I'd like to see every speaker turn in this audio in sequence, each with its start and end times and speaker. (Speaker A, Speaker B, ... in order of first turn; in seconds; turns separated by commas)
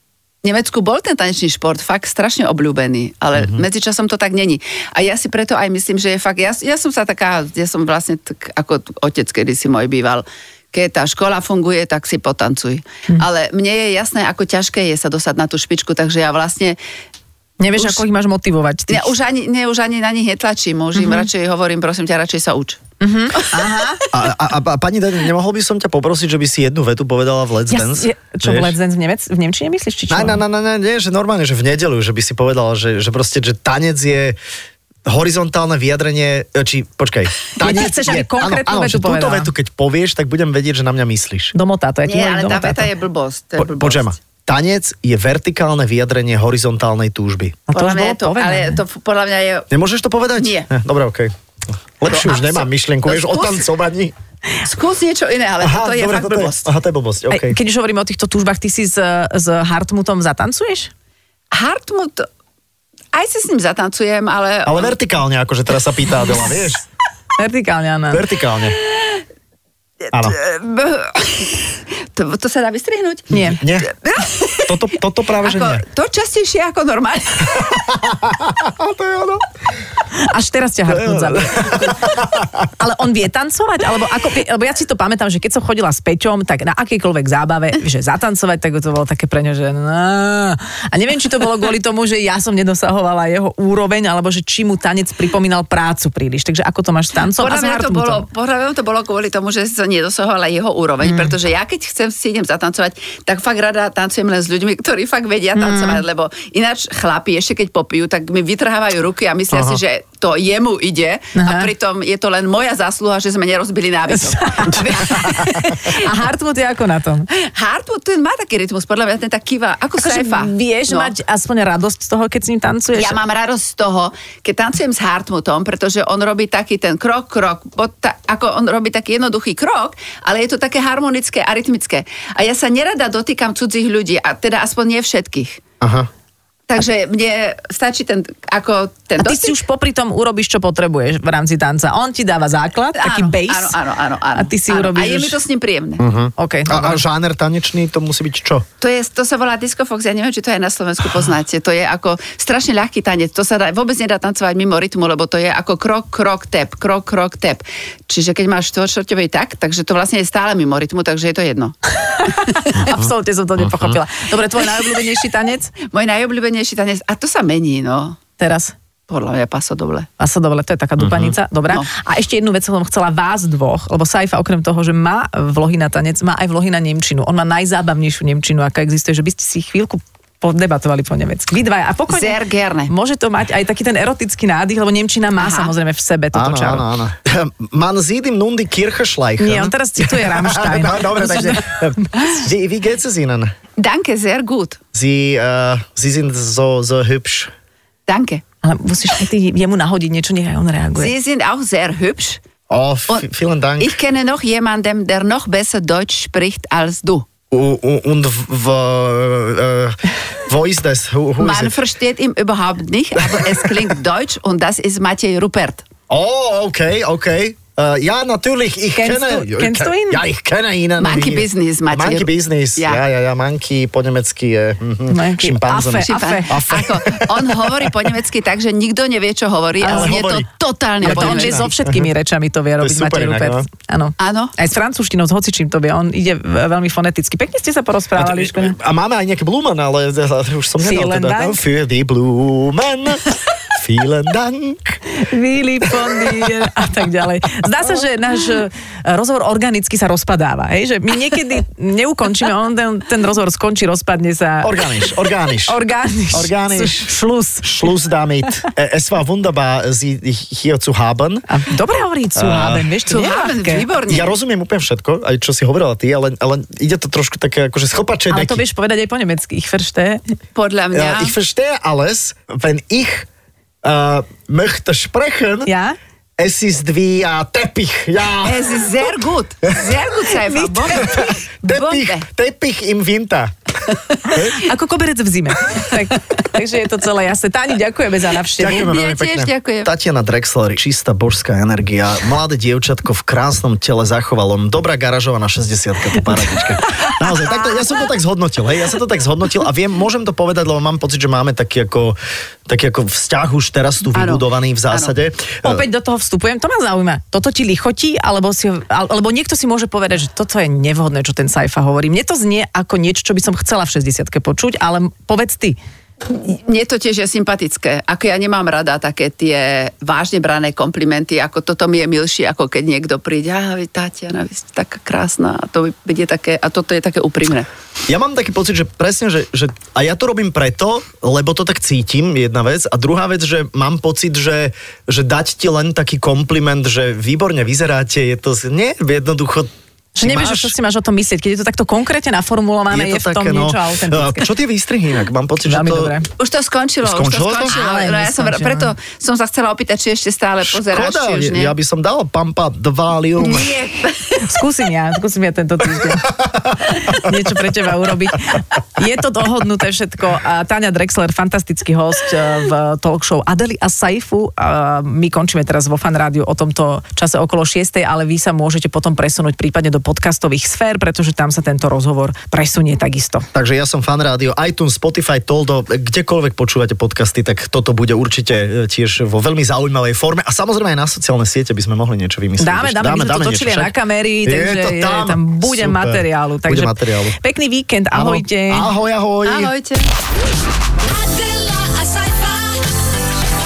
Speaker A: 0.4-16.8, Speaker B: 3.4-3.6, Speaker C: 17.6-19.1, Speaker A: 18.9-22.8, Speaker C: 20.9-21.3, Speaker C: 23.0-24.0, Speaker A: 23.3-23.7, Speaker B: 24.1-28.8, Speaker C: 27.7-30.4, Speaker B: 30.1-34.4, Speaker B: 35.0-41.5, Speaker C: 37.6-39.5, Speaker C: 41.5-42.9, Speaker A: 42.0-44.1, Speaker B: 43.6-47.6, Speaker C: 47.7-48.8, Speaker A: 47.7-49.7, Speaker B: 49.7-51.3, Speaker A: 50.4-50.7, Speaker B: 52.0-54.1, Speaker A: 52.0-53.6, Speaker A: 54.6-56.7, Speaker B: 55.6-57.6, Speaker C: 57.3-60.9, Speaker A: 61.5-62.3, Speaker A: 63.1-65.0, Speaker B: 64.7-66.8, Speaker C: 67.4-68.3, Speaker B: 68.1-68.8, Speaker A: 70.0-77.8, Speaker C: 73.3-73.6, Speaker B: 73.4-73.9, Speaker B: 74.7-75.8, Speaker B: 77.5-79.4, Speaker C: 80.1-82.1, Speaker B: 80.9-82.7, Speaker C: 82.8-98.2, Speaker A: 97.4-116.1, Speaker C: 101.0-101.3, Speaker C: 105.5-106.0, Speaker B: 109.5-109.8, Speaker C: 111.4-111.7, Speaker C: 114.1-117.2, Speaker A: 117.3-121.1, Speaker C: 120.0-123.1, Speaker A: 122.9-135.6, Speaker B: 135.8-136.1, Speaker A: 136.7-139.6, Speaker C: 139.2-143.8, Speaker A: 142.9-146.0, Speaker C: 144.3-145.4, Speaker B: 146.0-148.6, Speaker C: 146.4-147.0, Speaker A: 148.8-162.7, Speaker C: 162.0-165.7, Speaker B: 162.7-164.0, Speaker A: 165.8-168.2, Speaker C: 168.4-168.7, Speaker A: 169.1-170.1, Speaker C: 170.2-182.4, Speaker B: 171.0-171.3, Speaker A: 182.1-182.9, Speaker C: 182.9-186.8, Speaker A: 185.4-185.7, Speaker B: 186.3-193.5, Speaker C: 189.4-192.3, Speaker A: 193.8-194.8, Speaker B: 194.9-197.5, Speaker A: 198.1-198.4, Speaker C: 198.6-201.1, Speaker A: 200.9-202.4, Speaker B: 202.7-203.9, Speaker A: 203.8-207.2, Speaker B: 207.5-211.7, Speaker A: 211.4-215.8, Speaker B: 213.2-213.9, Speaker B: 216.1-228.1, Speaker C: 218.9-220.2, Speaker A: 221.0-223.0, Speaker C: 225.1-226.6, Speaker A: 226.0-231.7, Speaker C: 229.8-230.2, Speaker B: 229.9-230.4, Speaker B: 231.0-232.1, Speaker C: 231.0-238.8, Speaker B: 232.8-233.7, Speaker A: 234.2-234.5, Speaker B: 238.2-245.0, Speaker C: 240.8-241.6, Speaker C: 245.1-257.9, Speaker B: 245.8-246.7, Speaker B: 254.6-255.8, Speaker B: 256.3-257.1, Speaker B: 257.6-261.4, Speaker C: 261.5-263.9, Speaker B: 262.4-262.9, Speaker A: 263.0-264.4, Speaker B: 264.1-268.6, Speaker C: 268.3-270.2, Speaker A: 270.5-271.3, Speaker B: 270.9-273.3, Speaker B: 273.8-275.7, Speaker C: 275.6-276.0, Speaker B: 276.4-278.8, Speaker A: 278.4-282.3, Speaker C: 280.4-281.3, Speaker B: 280.9-283.5, Speaker B: 284.1-284.6, Speaker C: 284.5-288.9, Speaker B: 288.6-305.9, Speaker A: 288.7-289.9, Speaker C: 296.2-297.7, Speaker A: 304.1-305.1, Speaker C: 305.6-315.8, Speaker A: 316.3-327.7, Speaker B: 328.1-340.7, Speaker C: 340.1-344.5, Speaker B: 342.9-346.1, Speaker C: 345.6-346.3, Speaker A: 346.4-351.7, Speaker B: 347.0-347.8, Speaker C: 347.6-348.9, Speaker B: 350.6-353.7, Speaker A: 353.4-354.4, Speaker C: 354.4-356.3, Speaker B: 355.9-357.3, Speaker C: 357.0-373.5, Speaker B: 373.5-383.9, Speaker C: 382.6-388.9, Speaker B: 384.4-387.3, Speaker B: 388.1-389.7, Speaker A: 389.4-390.1, Speaker A: 391.1-392.9